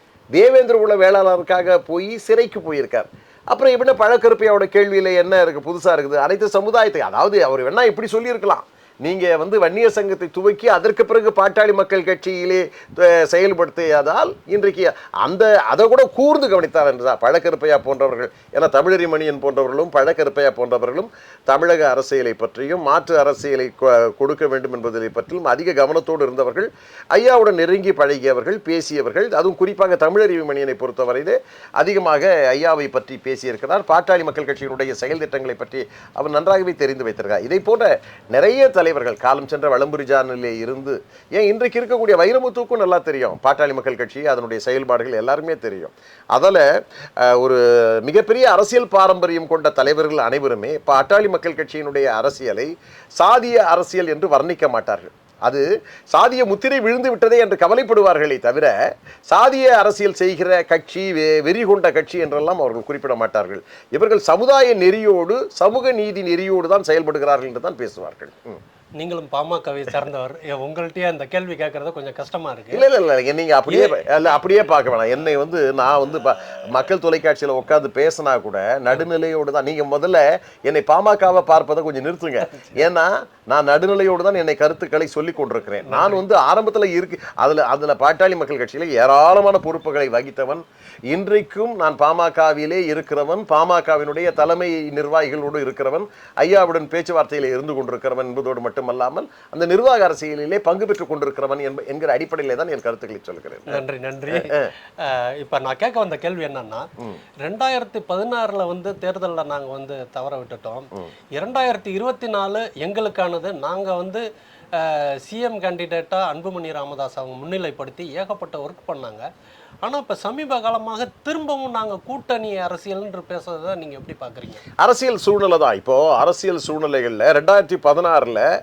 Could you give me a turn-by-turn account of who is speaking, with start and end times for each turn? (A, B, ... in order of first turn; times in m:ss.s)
0:00.3-0:46.6 A
0:47.2-0:58.8 A
0:59.3-1:08.6 A
1:09.0-1:12.8 B
1:12.7-1:43.8 A
1:13.7-1:13.9 B
1:25.8-1:26.2 B
1:43.7-1:46.9 B
1:44.3-1:44.7 A
1:47.4-1:59.2 B
1:59.8-2:04.6 B
2:04.8-2:08.5 A